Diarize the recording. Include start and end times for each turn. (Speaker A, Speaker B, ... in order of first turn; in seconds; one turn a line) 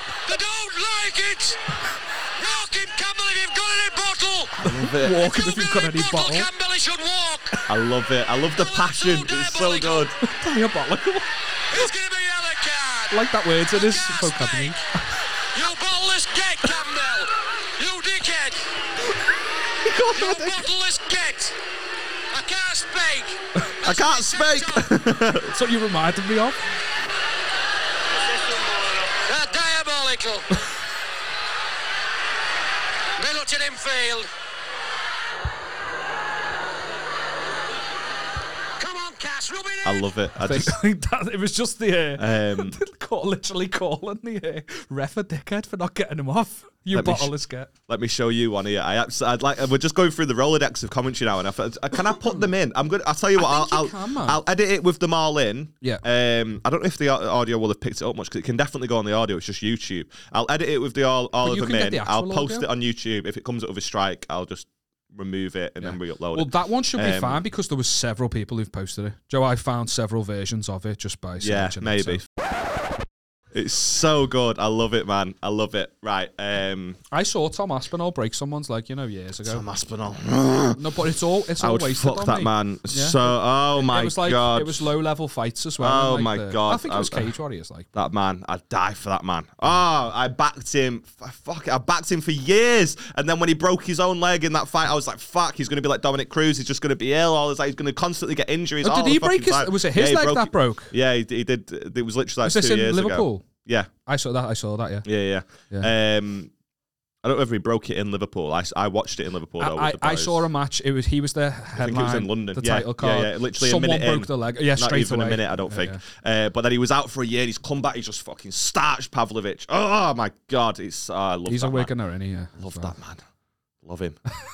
Speaker A: 0.2-1.7
Speaker A: 2.3-4.6
Speaker B: 4.6-5.2
Speaker C: 4.6-6.5
Speaker A: 5.2-7.6
Speaker B: 7.7-10.1
Speaker A: 8.6-10.1
Speaker C: 10.2-11.3
Speaker A: 11.7-14.8
Speaker C: 13.1-15.1
Speaker A: 15.5-18.7
Speaker B: 19.8-20.6
Speaker A: 20.0-21.6
Speaker A: 22.3-24.9
Speaker B: 23.8-25.5
Speaker C: 25.5-26.6
Speaker A: 28.2-30.5
Speaker A: 33.2-34.3
Speaker A: 38.8-40.1
Speaker B: 39.8-40.8
Speaker C: 40.4-47.7
Speaker B: 42.2-42.8
Speaker B: 46.9-47.3
Speaker B: 47.9-67.4
Speaker C: 52.1-52.4
Speaker C: 53.4-54.4
Speaker C: 61.4-62.7
Speaker C: 65.8-72.2
Speaker B: 71.4-72.2
Speaker B: 73.5-77.0
Speaker C: 77.1-79.6
Speaker B: 79.4-80.8
Speaker C: 80.7-87.9
Speaker B: 81.6-84.9
Speaker B: 85.8-87.3
Speaker B: 87.9-103.9
Speaker C: 98.8-100.9
Speaker C: 102.4-103.5
Speaker C: 104.0-105.0
Speaker B: 105.0-106.5
Speaker B: 107.2-110.4
Speaker C: 109.6-116.0
Speaker B: 111.8-121.9
Speaker C: 121.5-122.9
Speaker B: 122.6-123.2
Speaker B: 123.8-124.2